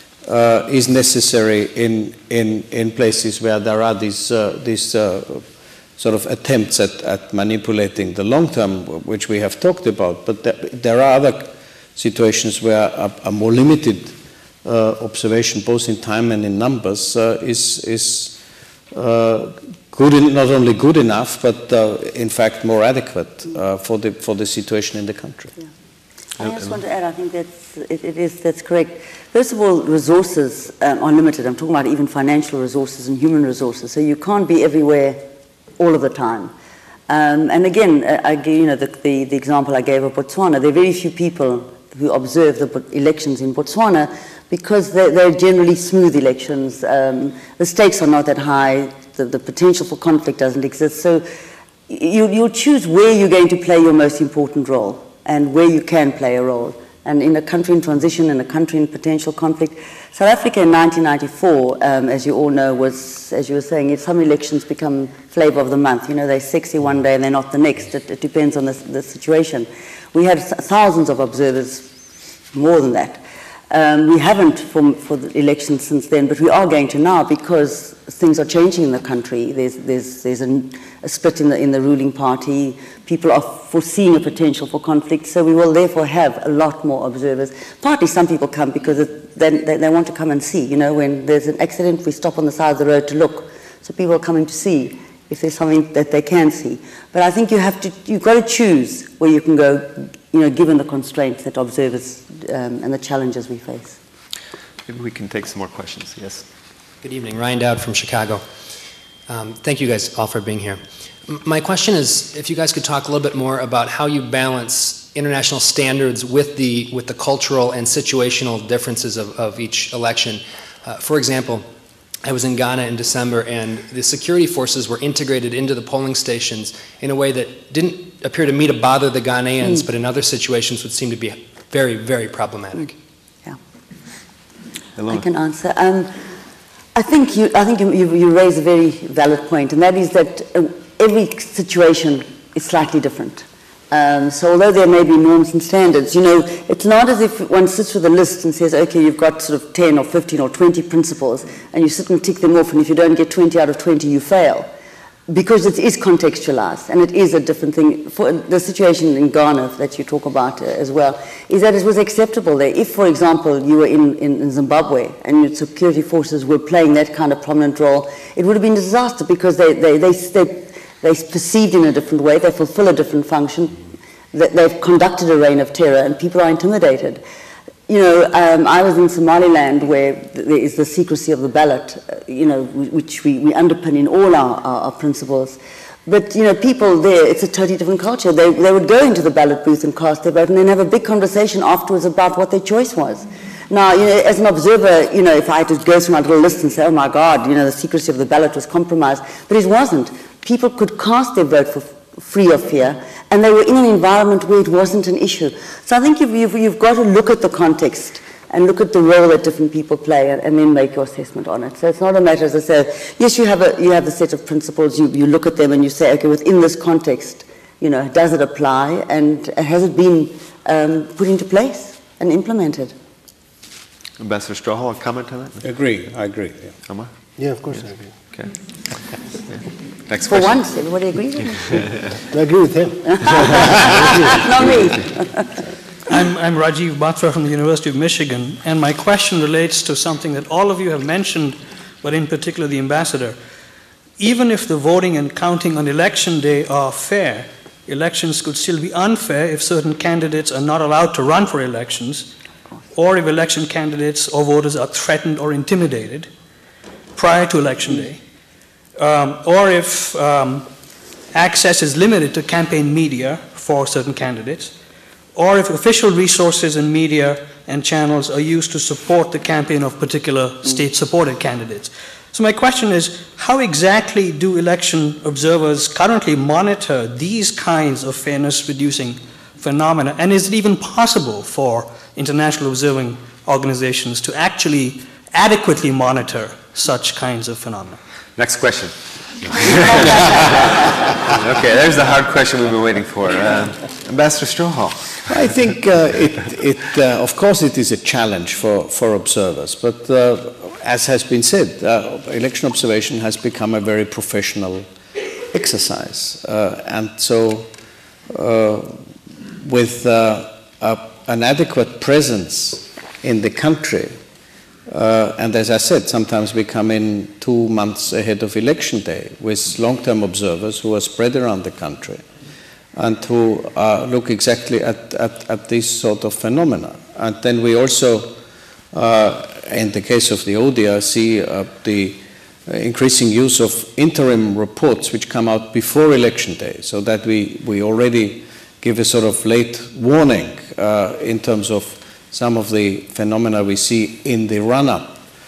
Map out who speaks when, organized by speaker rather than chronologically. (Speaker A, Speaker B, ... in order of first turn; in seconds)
Speaker A: 0.2-5.5, 6.0-18.4, 18.9-25.5, 225.6-226.8, 295.3-304.9, 305.5-307.7, 308.3-309.1, 309.6-314.2, 314.9-322.2, 322.9-328.4, 328.9-345.2
Speaker B: 26.4-35.2, 35.8-36.5, 37.1-51.3, 51.9-71.9, 72.5-104.0, 135.1-136.1, 136.9-154.7, 155.3-173.8, 174.3-177.2, 177.9-222.9, 230.3-231.8, 233.2-235.4
Speaker C: 104.9-106.5, 135.0-135.2, 224.2-225.6, 230.1-230.6, 288.4-295.3
Speaker D: 107.0-108.4, 109.3-121.7, 122.2-132.9
Speaker E: 227.4-228.1, 232.3-234.1
Speaker F: 236.1-243.4, 244.2-252.3, 252.9-256.3, 257.1-258.2, 259.0-260.7, 261.3-264.7, 265.4-288.0